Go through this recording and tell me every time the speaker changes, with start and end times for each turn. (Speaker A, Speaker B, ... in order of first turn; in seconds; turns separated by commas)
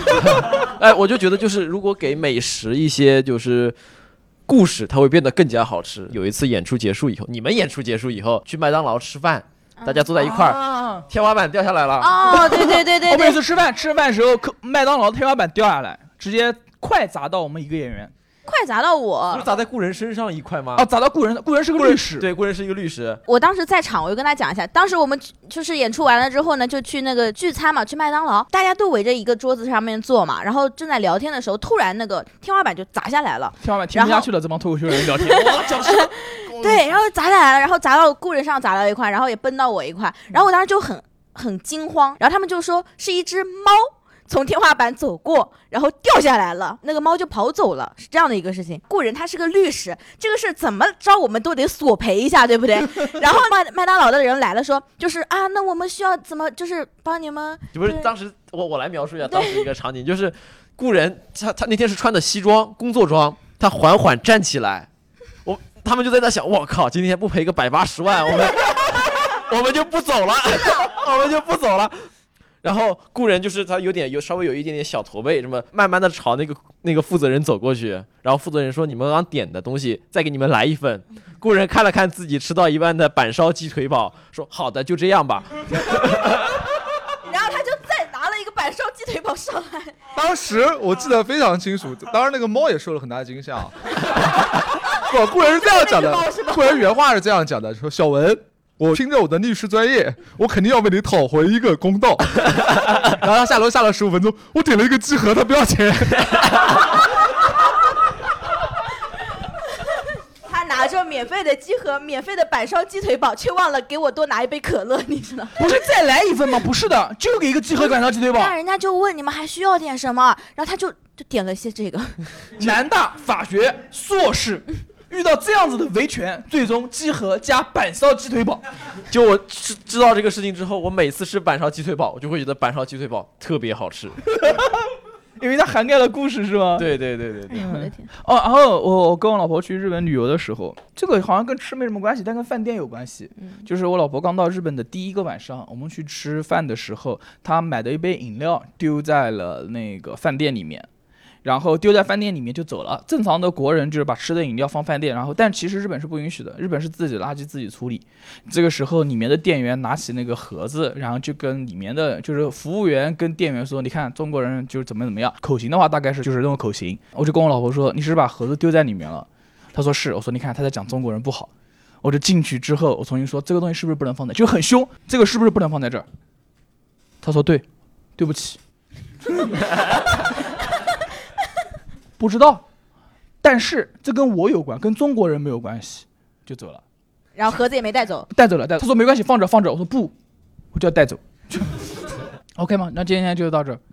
Speaker A: 0.2-3.8, Speaker A: 4.5-12.3, Speaker B: 10.2-11.1, Speaker C: 12.0-13.4, Speaker B: 12.2-18.1, Speaker C: 18.5-19.4, Speaker A: 19.3-20.9, Speaker B: 20.8-22.3, Speaker A: 21.8-23.2, Speaker C: 23.3-34.3, Speaker B: 33.6-35.7, Speaker C: 35.3-58.1, Speaker A: 35.3-36.9, Speaker A: 57.7-64.9, Speaker C: 59.3-59.6, Speaker A: 65.5-72.1, Speaker A: 72.6-86.5, Speaker C: 87.2-90.0, Speaker D: 90.1-93.8, Speaker D: 94.9-106.7, Speaker C: 95.4-96.5, Speaker C: 110.5-115.7, Speaker B: 115.6-118.5, Speaker C: 118.3-122.3, Speaker B: 122.6-128.6, Speaker A: 129.1-134.2, Speaker B: 134.3-136.9, Speaker A: 136.8-137.7, Speaker C: 137.5-138.1, Speaker B: 137.6-150.9, Speaker B: 151.4-171.5, Speaker B: 172.0-176.1, Speaker B: 177.2-177.7, Speaker B: 178.2-178.6, Speaker B: 179.3-179.7, Speaker B: 182.2-182.7, Speaker B: 183.4-186.8, Speaker C: 187.4-188.3, Speaker B: 188.3-190.1, Speaker B: 190.7-191.9, Speaker B: 192.6-193.8